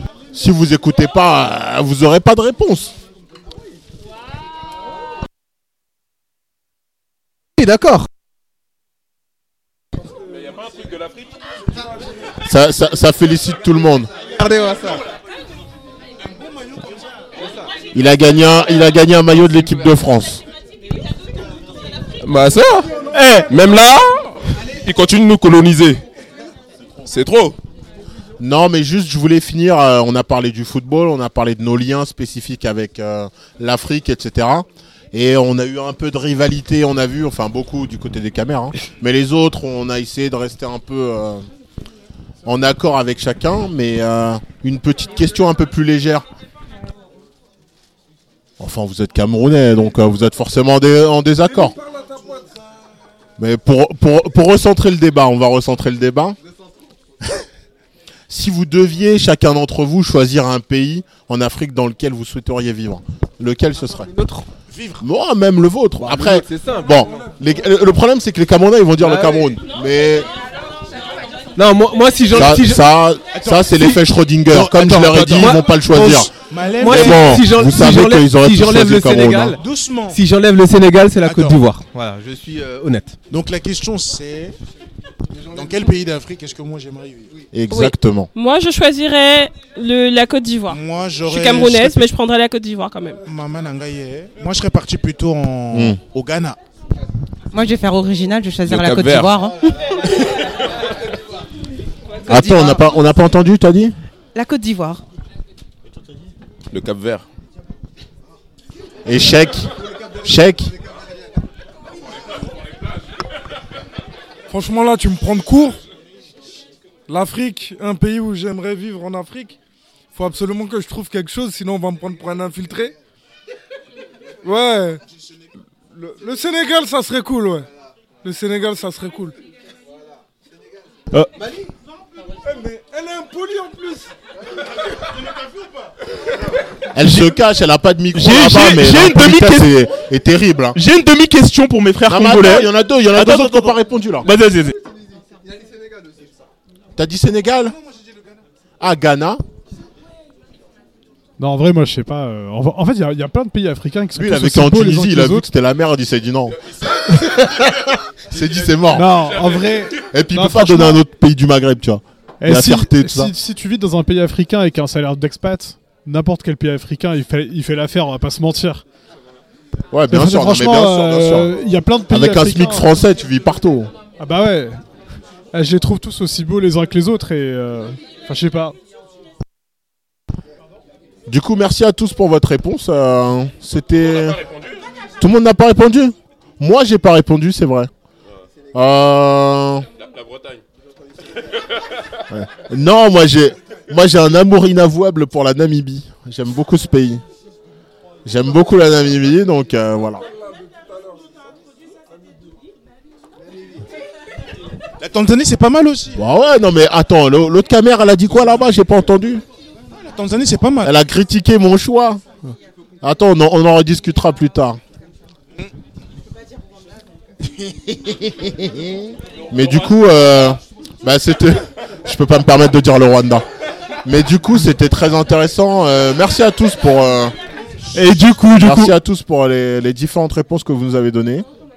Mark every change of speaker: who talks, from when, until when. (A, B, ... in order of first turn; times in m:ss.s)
0:00.3-0:02.9 A
0:07.6-0:08.1 B
0:10.6-0:10.9 C
0:12.4-0:14.1 A
0:14.4-0:15.0 B
0:17.4-0:17.7 B
0:17.9-0:20.4 A
0:22.2-0:22.9 C
0:23.1-0:23.5 D
0:23.5-0:26.0 C
0:27.0-0:27.6 C
0:28.4-0:41.5 A
0:42.4-0:46.3 A
0:48.6-0:51.8 A
0:53.4-0:56.4 A
0:58.3-1:04.1 A
1:04.1-1:04.5 B
1:04.7-1:05.0 E
1:05.0-1:10.3 A
1:06.0-1:07.0 B
1:09.0-1:09.5 B
1:11.6-1:12.8 B
1:12.3-1:16.3 A
1:13.3-1:13.9 E
1:14.5-1:15.6 E
1:14.7-1:23.2 B
1:16.4-1:17.6 E
1:16.8-1:19.6 A
1:19.5-1:20.2 E
1:21.2-1:21.6 E
1:23.3-1:24.6 E
1:25.5-1:27.3 E
1:27.5-1:28.3 A
1:27.7-1:33.2 F
1:30.7-1:32.1 E
1:33.3-1:36.6 E
1:35.7-1:36.0 A
1:37.5-1:40.1 G
1:38.7-1:39.4 C
1:42.3-1:44.0 A
1:42.3-1:42.9 G
1:44.4-1:45.0 G
1:46.7-1:47.2 C
1:49.0-1:50.7 A
1:54.5-1:55.8 H
1:57.1-1:59.6 H
2:00.1-2:03.0 H
2:04.4-2:05.0 H
2:05.9-2:07.7 H
2:08.2-2:09.4 H
2:12.4-2:14.1 H
2:16.9-2:20.8 A
2:17.0-2:17.3 D
2:18.1-2:19.7 D
2:20.8-2:24.8 D
2:22.1-2:24.3 A
2:27.0-2:27.8 A
2:28.8-2:29.4 A
2:31.4-2:35.5 I
2:34.2-2:39.2 A
2:38.9-2:41.0 I
2:40.1-2:43.3 A
2:42.4-2:48.8 I
2:49.9-2:51.5 A
2:50.1-2:52.9 I
2:52.1-2:53.9 A
2:54.2-2:54.8 I
2:55.5-2:58.8 I
3:01.3-3:04.4 A
3:05.2-3:07.9 A
3:08.7-3:09.9 A
3:10.0-3:10.6 C
3:12.3-3:17.2 A
3:18.2-3:20.2 A
3:25.0-3:26.2 E
3:26.2-3:29.4 A
3:29.9-3:30.9 E
3:30.8-3:32.5 A
3:33.0-3:34.8 A
3:39.5-3:43.5 A
3:44.0-3:47.4 A
3:47.9-3:48.9 D
3:48.6-3:51.5 A